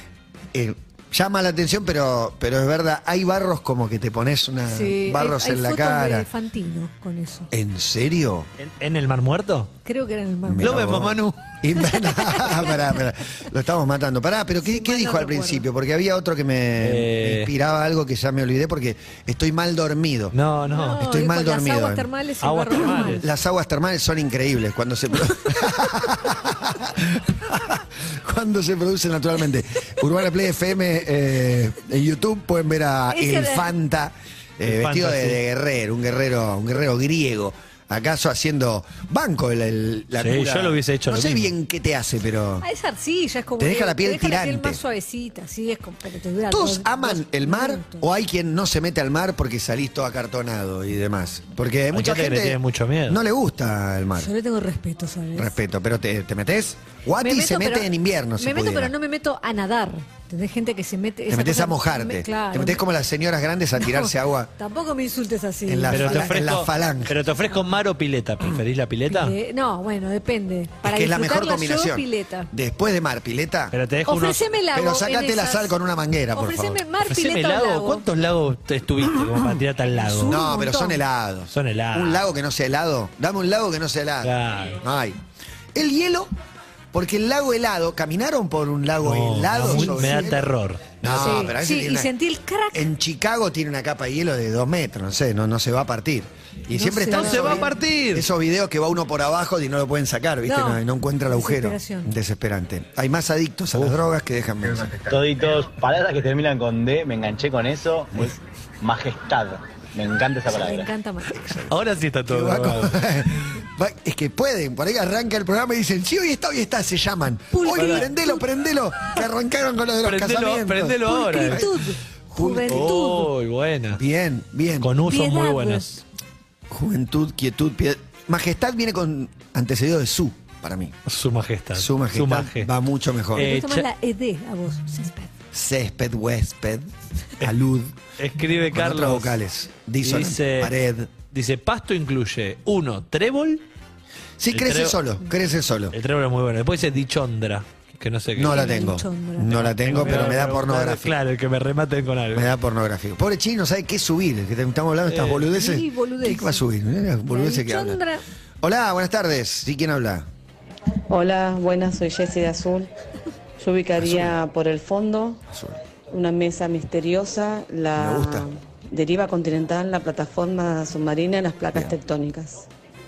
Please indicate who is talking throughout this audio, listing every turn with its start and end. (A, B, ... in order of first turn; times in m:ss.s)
0:00.5-0:06.3 A
0:04.7-0:07.5 B
0:07.5-0:08.5 A
0:08.6-0:09.7 C
0:09.8-0:10.8 B
0:10.4-0:20.3 A
0:10.6-0:11.5 C
0:11.8-0:12.8 B
0:14.6-0:15.6 B
0:16.8-0:17.5 C
0:20.3-0:21.0 C
0:20.7-0:23.2 B
0:20.9-0:22.1 A
0:22.4-0:23.2 C
0:23.1-0:42.6 A
0:33.1-0:33.7 B
0:34.6-0:35.4 C
0:40.2-0:41.5 C
0:42.6-0:48.0 B
0:43.6-0:44.8 A
0:46.5-0:54.3 A
0:51.9-0:53.2 C
0:54.2-0:55.5 B
0:55.3-0:58.9 A
0:57.2-1:02.8 B
1:01.3-1:04.5 A
1:03.8-1:06.3 B
1:05.7-1:07.2 A
1:05.9-1:09.3 C
1:09.1-1:12.5 B
1:10.8-1:13.7 A
1:13.7-1:14.5 C
1:14.1-1:15.7 B
1:14.7-1:16.8 A
1:16.3-1:18.0 B
1:17.0-1:20.4 C
1:19.9-1:21.0 B
1:20.2-1:25.2 A
1:21.5-1:22.2 C
1:24.2-1:24.8 C
1:25.7-1:26.3 A
1:26.9-1:30.5 A
1:29.0-1:31.5 C
1:29.7-1:30.2 B
1:31.0-1:32.1 A
1:31.1-1:32.9 B
1:32.7-1:45.0 A
1:36.7-1:37.7 B
1:37.1-1:38.2 C
1:40.4-1:42.1 B
1:44.9-1:50.9 D
1:50.5-1:51.5 B
1:51.3-1:51.7 A
1:51.7-1:53.0 C
1:52.3-2:01.8 A
1:57.5-1:58.4 B
1:57.7-1:58.1 C
2:00.0-2:01.7 C
2:01.0-2:03.3 B
2:02.3-2:02.9 A
2:02.6-2:04.0 C
2:03.9-2:04.9 A
2:04.8-2:06.0 C
2:05.0-2:05.9 B
2:06.7-2:11.0 A
2:11.0-2:12.7 C
2:11.7-2:13.5 A
2:13.3-2:13.8 C
2:13.3-2:15.3 B
2:15.5-2:18.0 A
2:18.2-2:19.4 C
2:18.7-2:21.1 A
2:20.0-2:23.6 C
2:24.4-2:25.9 A
2:24.5-2:25.0 C
2:25.9-2:28.8 C
2:28.3-2:31.1 A
2:28.5-2:30.4 B
2:29.7-2:32.5 C
2:32.3-2:38.0 A
2:35.1-2:35.5 C
2:35.5-2:36.6 B
2:37.3-2:38.2 B
2:38.6-2:40.3 A
2:41.1-2:42.9 E
2:43.6-2:45.4 E
2:44.0-2:44.3 A
2:45.5-2:45.8 A
2:46.1-2:52.6 E
2:48.0-2:48.5 A